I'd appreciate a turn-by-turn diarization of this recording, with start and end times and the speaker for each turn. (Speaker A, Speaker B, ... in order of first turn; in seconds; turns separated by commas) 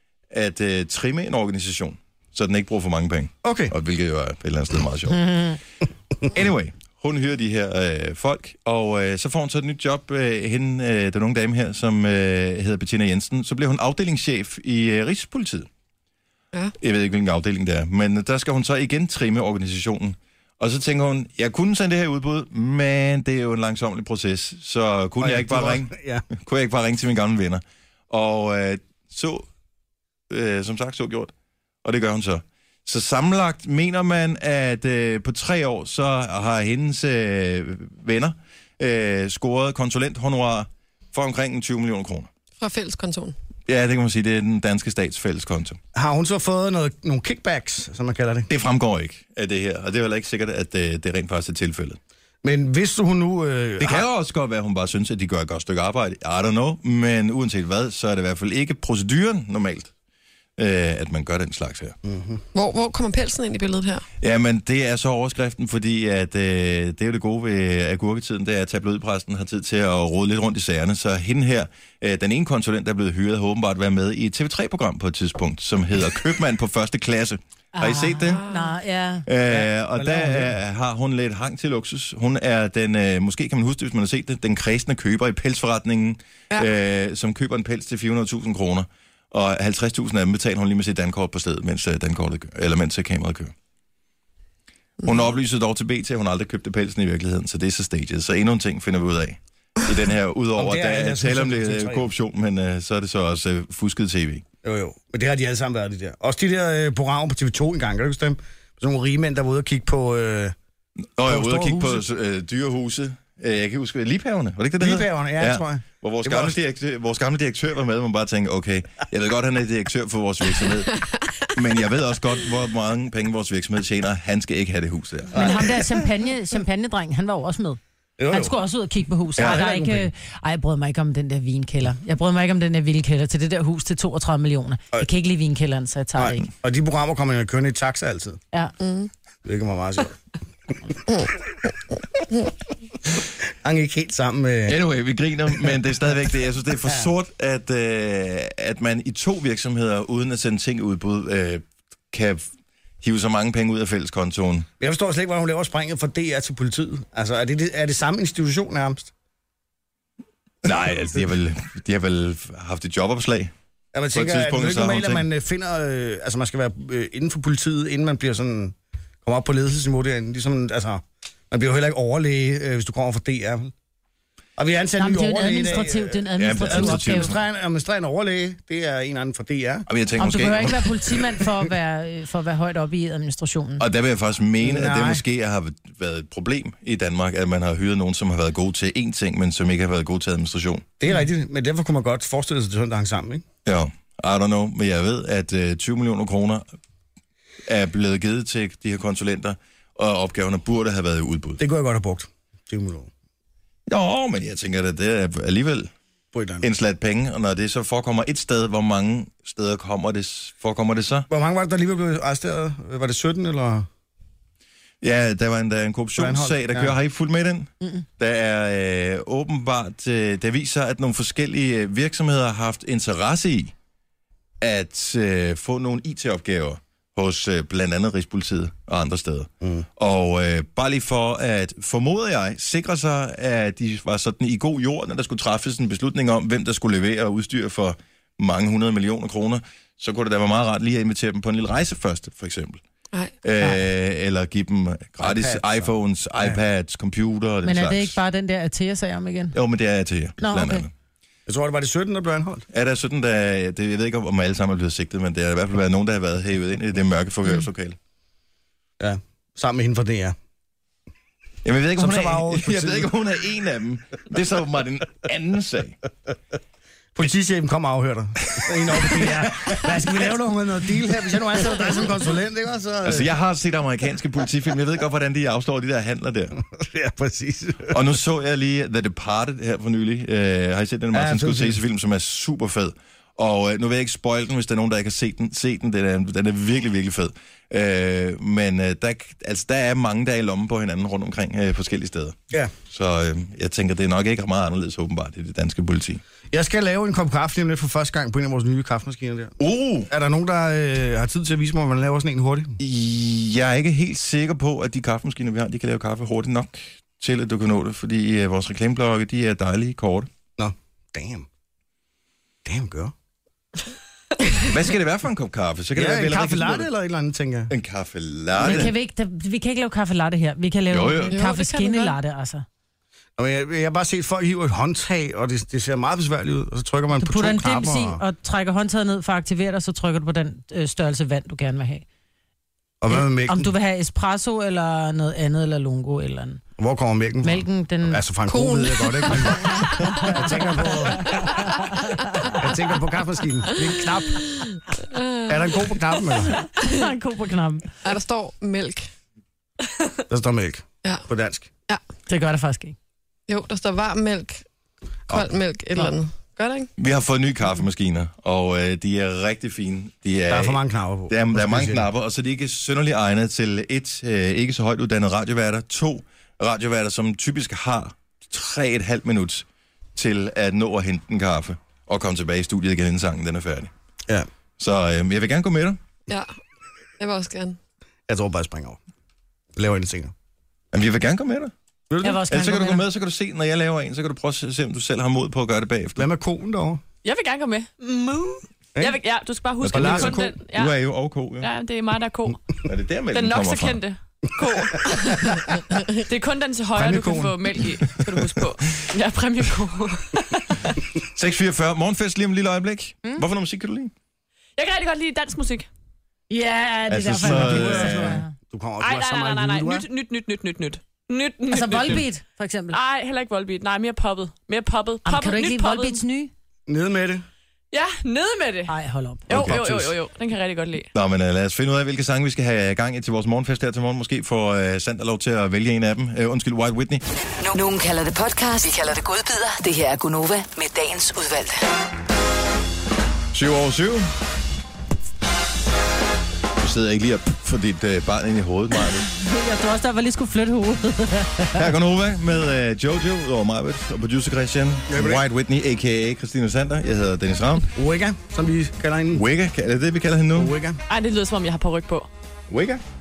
Speaker A: 0.3-5.4, Speaker B: 3.4-3.7, Speaker C: 5.2-5.5, Speaker A: 6.3-15.7, Speaker A: 16.8-29.5, Speaker B: 25.2-26.3, Speaker A: 30.3-31.3, Speaker A: 31.8-42.3, Speaker D: 42.6-43.4, Speaker A: 43.6-45.8, Speaker B: 45.9-48.5, Speaker A: 48.5-52.0, Speaker B: 52.4-54.0, Speaker A: 53.8-59.9, Speaker A: 60.6-61.9, Speaker B: 62.0-62.4, Speaker D: 62.5-64.0, Speaker A: 64.2-78.4, Speaker C: 77.8-79.7, Speaker D: 78.3-78.8, Speaker A: 79.2-93.5, Speaker B: 80.0-80.5, Speaker A: 95.0-104.4, Speaker B: 100.5-102.1, Speaker B: 104.6-110.5, Speaker A: 111.2-120.9, Speaker B: 111.2-112.0, Speaker B: 114.8-116.5, Speaker A: 121.5-125.7, Speaker B: 125.3-125.6, Speaker C: 125.3-127.8, Speaker B: 128.2-128.6, Speaker C: 128.3-136.5, Speaker A: 129.4-129.6, Speaker B: 129.4-130.1, Speaker B: 136.2-138.4, Speaker D: 138.8-139.1, Speaker B: 139.4-140.2, Speaker B: 143.4-144.8, Speaker A: 144.7-152.5, Speaker A: 153.0-154.7, Speaker B: 154.8-159.1, Speaker A: 160.6-163.5, Speaker B: 163.9-173.7, Speaker A: 164.1-165.3, Speaker B: 174.6-179.9, Speaker C: 175.0-177.3, Speaker A: 176.4-177.3, Speaker A: 179.9-180.9, Speaker C: 180.2-183.8, Speaker A: 183.8-190.8, Speaker B: 184.6-185.2, Speaker B: 191.0-193.4, Speaker A: 193.6-196.6, Speaker A: 197.7-201.6, Speaker B: 201.6-203.1, Speaker A: 203.9-205.9, Speaker B: 206.3-206.7, Speaker A: 206.6-211.3, Speaker B: 211.3-213.9, Speaker A: 215.0-223.7, Speaker B: 216.2-216.9, Speaker A: 224.6-242.8, Speaker A: 243.4-248.2, Speaker B: 245.2-246.6, Speaker C: 247.6-249.6, Speaker A: 249.5-250.9, Speaker C: 250.4-250.8, Speaker B: 251.4-252.7, Speaker A: 252.7-258.0, Speaker B: 259.0-260.4, Speaker A: 261.6-266.0, Speaker B: 262.0-263.1, Speaker B: 267.1-273.3, Speaker A: 268.5-270.1, Speaker A: 273.0-276.6, Speaker B: 276.7-278.0, Speaker A: 277.9-292.4, Speaker B: 281.1-281.8, Speaker A: 292.9-296.2, Speaker B: 296.5-302.8, Speaker A: 299.6-300.1, Speaker A: 302.8-310.3, Speaker B: 310.6-311.5, Speaker B: 312.6-313.1, Speaker A: 314.6-316.9, Speaker B: 315.9-317.7, Speaker A: 317.7-318.9, Speaker C: 318.6-322.6, Speaker A: 320.9-321.4, Speaker D: 321.3-322.2, Speaker B: 323.4-328.2, Speaker C: 327.2-332.0, Speaker B: 333.0-333.7, Speaker C: 333.1-336.6, Speaker B: 336.8-341.4, Speaker C: 337.4-338.2, Speaker D: 338.5-340.4, Speaker D: 341.2-341.8, Speaker C: 341.2-342.6, Speaker B: 342.6-344.4, Speaker D: 344.5-345.7, Speaker B: 345.5-346.6, Speaker C: 346.5-348.0, Speaker D: 348.0-349.1, Speaker B: 350.3-351.7, Speaker C: 352.3-352.9, Speaker D: 353.5-354.6, Speaker D: 355.3-356.9, Speaker A: 357.0-369.6, Speaker B: 360.5-362.1, Speaker A: 370.1-373.9, Speaker A: 374.8-376.0, Speaker D: 377.2-377.8, Speaker B: 378.3-379.0, Speaker B: 379.7-380.3, Speaker A: 380.9-381.7, Speaker B: 382.1-382.4, Speaker C: 382.2-383.0, Speaker A: 382.5-386.3, Speaker B: 386.2-387.0, Speaker E: 387.2-390.9, Speaker A: 389.8-391.7, Speaker B: 389.9-390.6, Speaker E: 391.6-392.6, Speaker A: 392.8-394.0, Speaker E: 393.3-401.0, Speaker B: 396.9-397.6, Speaker A: 401.3-404.1, Speaker E: 404.8-405.9, Speaker C: 406.5-408.5, Speaker A: 407.1-408.4, Speaker B: 407.3-410.1, Speaker E: 409.0-412.2, Speaker C: 411.7-413.0, Speaker E: 412.9-416.2, Speaker C: 415.2-416.5, Speaker B: 416.9-417.4, Speaker E: 417.9-418.9, Speaker C: 418.9-420.0, Speaker E: 419.5-421.1, Speaker A: 419.5-419.8, Speaker A: 421.1-427.2, Speaker F: 427.6-431.8, Speaker A: 433.5-434.3, Speaker A: 436.8-439.3, Speaker C: 439.3-441.9, Speaker A: 441.7-447.9, Speaker B: 445.1-445.4, Speaker B: 447.9-449.4, Speaker A: 449.3-450.8, Speaker B: 450.5-451.0, Speaker E: 451.1-452.3, Speaker A: 452.7-453.0